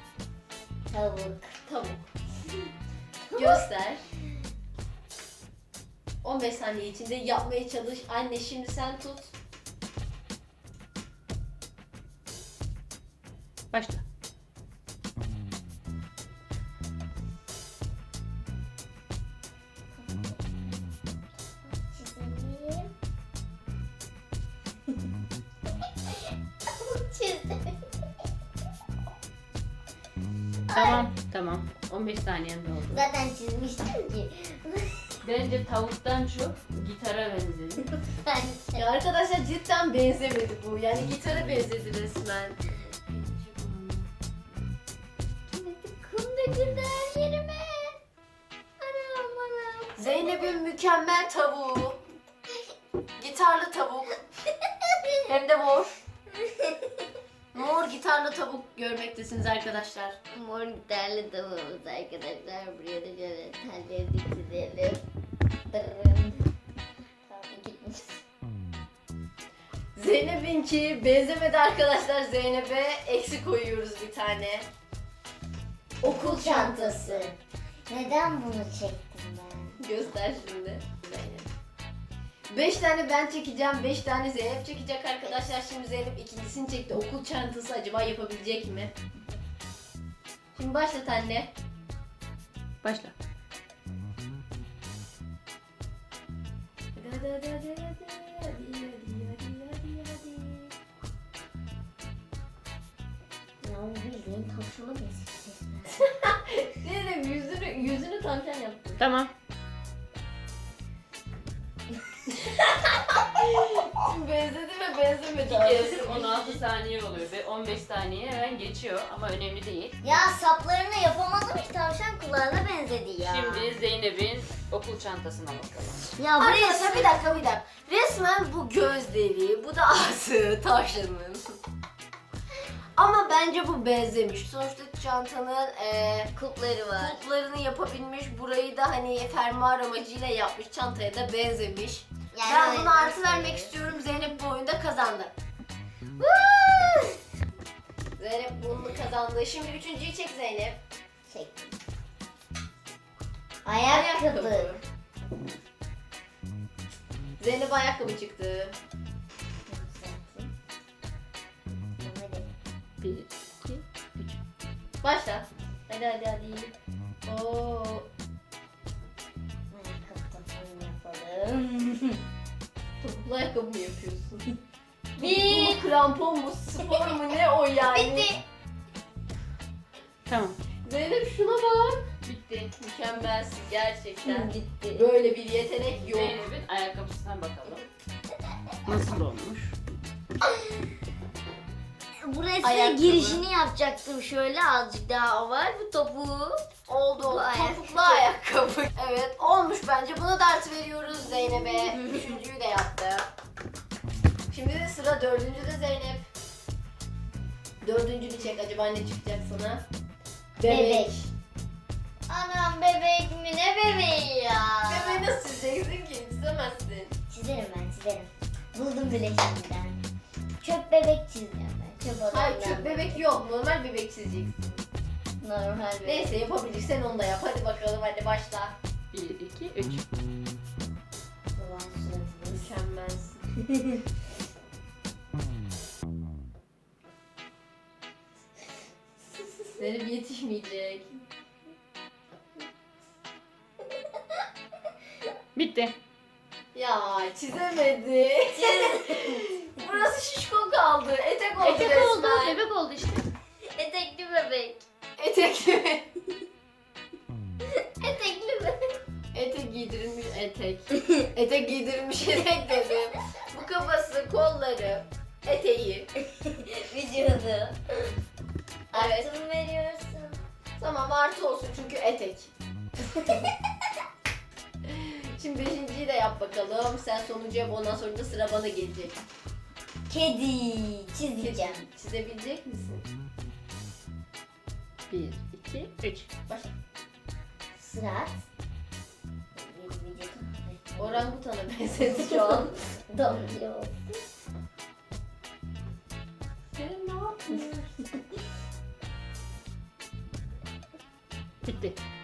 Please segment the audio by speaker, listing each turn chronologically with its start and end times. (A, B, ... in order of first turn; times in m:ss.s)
0:00.9-0:01.5 A
0:01.6-0:02.0 B
0:03.2-0:03.7 A
0:03.4-0:04.0 B
0:06.2-0:09.3 B
0:13.7-0:14.0 C
0:19.9-0:20.8 A
0:21.6-0:22.9 A
0:26.1-0:27.9 A
0:30.7-0:31.1 A
0:30.7-0:33.1 C
0:32.9-0:35.1 A
0:35.2-0:37.9 C
0:38.0-0:38.9 A
0:38.8-0:42.6 B
0:43.1-0:44.1 C
0:45.5-0:48.0 A
0:48.8-0:50.6 A
0:50.0-0:52.0 B
0:53.2-0:54.2 B
0:54.6-0:55.1 A
0:55.2-0:55.9 B
0:56.3-0:57.0 A
0:57.5-1:00.2 B
1:00.3-1:05.0 A
1:05.7-1:06.5 A
1:07.2-1:08.2 A
1:09.9-1:14.6 B
1:16.0-1:17.3 B
1:16.0-1:19.8 A
1:19.8-1:21.5 B
1:22.5-1:28.9 B
1:25.2-1:25.6 A
1:30.5-1:31.5 B
1:32.8-1:33.1 C
1:36.9-1:40.7 B
1:43.6-1:46.0 A
1:46.0-1:49.0 B
1:49.0-1:49.3 C
1:52.3-1:56.6 B
1:55.4-2:00.0 C
2:00.0-2:03.7 A
2:03.2-2:06.1 C
2:06.2-2:07.3 A
2:06.4-2:11.4 B
2:13.0-2:16.3 B
2:16.3-2:17.2 A
2:17.0-2:25.3 B
2:22.3-2:23.8 A
2:26.2-2:27.1 A
2:28.2-2:30.8 B
2:31.3-2:31.8 A
2:33.6-2:34.7 A
2:33.9-2:34.8 B
2:37.4-2:38.8 B
2:39.7-2:40.5 A
2:41.9-2:42.5 A
2:43.0-2:44.4 C
2:45.0-2:46.7 B
2:47.2-2:48.1 B
2:49.7-2:52.2 A
2:53.0-2:54.5 B
2:55.2-2:55.8 A
2:55.2-2:58.3 B
2:56.8-2:57.1 A
2:57.8-2:58.4 A
3:00.3-3:00.6 C
3:00.8-3:02.1 B
3:02.2-3:02.7 C
3:02.7-3:06.4 B
3:04.2-3:05.1 A
3:05.9-3:07.8 C
3:08.8-3:09.7 C
3:12.2-3:16.6 A
3:12.6-3:13.4 B
3:16.9-3:23.3 B
3:17.2-3:18.3 A
3:24.5-3:26.2 B
3:27.8-3:29.8 B
3:30.6-3:31.3 B
3:30.6-3:31.1 A
3:32.3-3:35.3 A
3:34.8-3:37.2 B
3:37.3-3:40.0 A
3:40.6-3:43.2 A
3:42.2-3:44.8 B
3:45.4-3:46.4 A
3:46.0-3:48.8 B
3:49.1-3:50.0 C
3:51.5-3:52.7 A
3:52.5-3:53.4 B
3:59.7-4:01.2 B
4:05.6-4:05.9 C
4:06.7-4:12.6 B
4:08.5-4:09.9 A
4:11.6-4:13.3 C
4:13.6-4:14.8 A
4:15.2-4:16.1 B
4:18.0-4:18.8 A
4:19.3-4:26.1 B
4:26.2-4:27.8 A
4:28.9-4:30.4 A
4:28.9-4:29.3 B
4:30.8-4:32.5 B
4:33.1-4:33.5 A
4:34.8-4:39.2 B
4:40.1-4:41.8 A
4:41.4-4:43.0 B
4:45.1-4:46.3 C
4:47.8-4:48.4 A
4:49.5-4:51.4 A
4:51.0-4:52.7 B
4:52.0-4:54.2 A
4:56.7-4:58.0 B
5:01.6-5:02.0 C